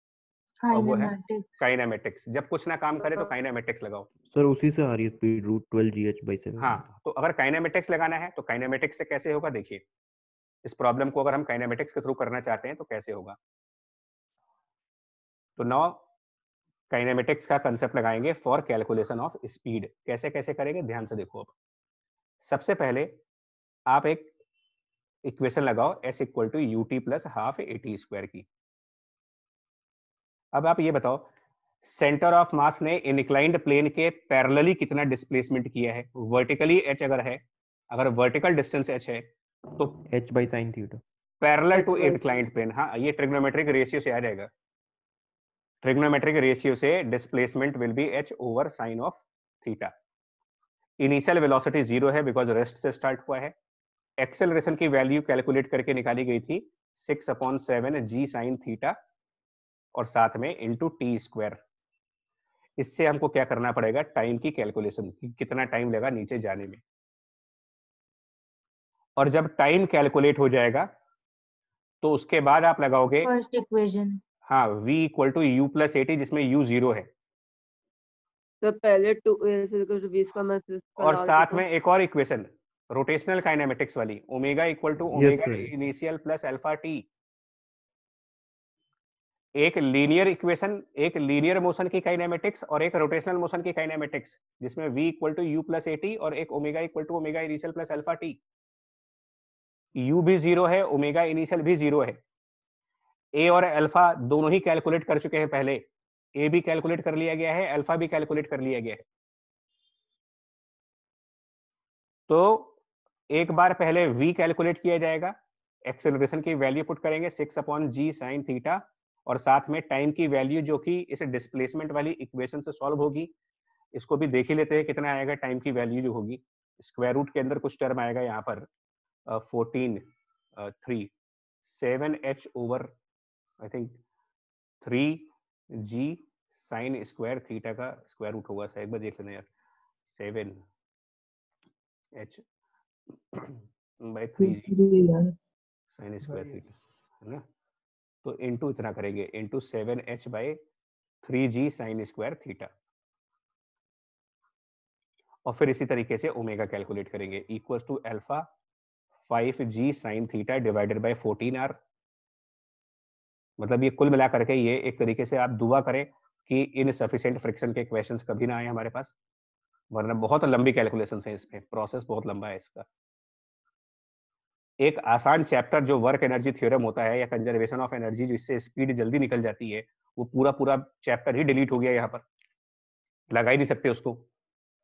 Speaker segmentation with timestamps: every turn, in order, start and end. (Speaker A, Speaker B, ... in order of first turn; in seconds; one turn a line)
Speaker A: 0.6-1.6
Speaker B: 0.7-4.1
Speaker C: 4.3-6.8
Speaker B: 6.6-9.8
Speaker B: 10.6-13.4
Speaker B: 15.6-16.0
Speaker B: 16.9-21.5
Speaker B: 22.4-23.2
Speaker B: 23.9-24.3
Speaker B: 25.2-28.4
Speaker B: 30.5-31.3
Speaker B: 31.8-39.2
Speaker C: 40.1-41.0
Speaker B: 41.4-44.5
Speaker D: 41.7-42.4
Speaker B: 45.8-49.9
Speaker B: 51.0-53.5
Speaker B: 54.2-59.0
Speaker B: 59.9-61.6
Speaker B: 62.8-66.8
Speaker B: 69.2-70.9
Speaker B: 72.0-73.3
Speaker A: 73.2-74.2
Speaker B: 74.5-77.1
Speaker D: 78.6-81.6
Speaker B: 81.0-87.0
Speaker C: 85.1-85.7
Speaker B: 89.5-98.4
Speaker B: 100.0-102.2
Speaker B: 103.3-105.8
Speaker B: 106.3-109.0
Speaker B: 112.3-112.7
Speaker B: 113.3-123.3
Speaker B: 123.9-128.7
Speaker B: 129.3-131.1
Speaker B: 131.6-132.9
Speaker B: 133.6-134.0
Speaker B: 134.8-139.5
Speaker B: 140.1-140.6
Speaker B: 142.1-142.4
Speaker B: 143.3-144.7
Speaker B: 145.9-147.4
Speaker B: 148.2-150.6
Speaker B: 151.2-152.7
Speaker B: 155.4-158.4
Speaker B: 159.3-161.8
Speaker B: 163.6-169.1
Speaker B: 169.9-172.8
Speaker B: 174.8-182.2
Speaker B: 183.3-184.2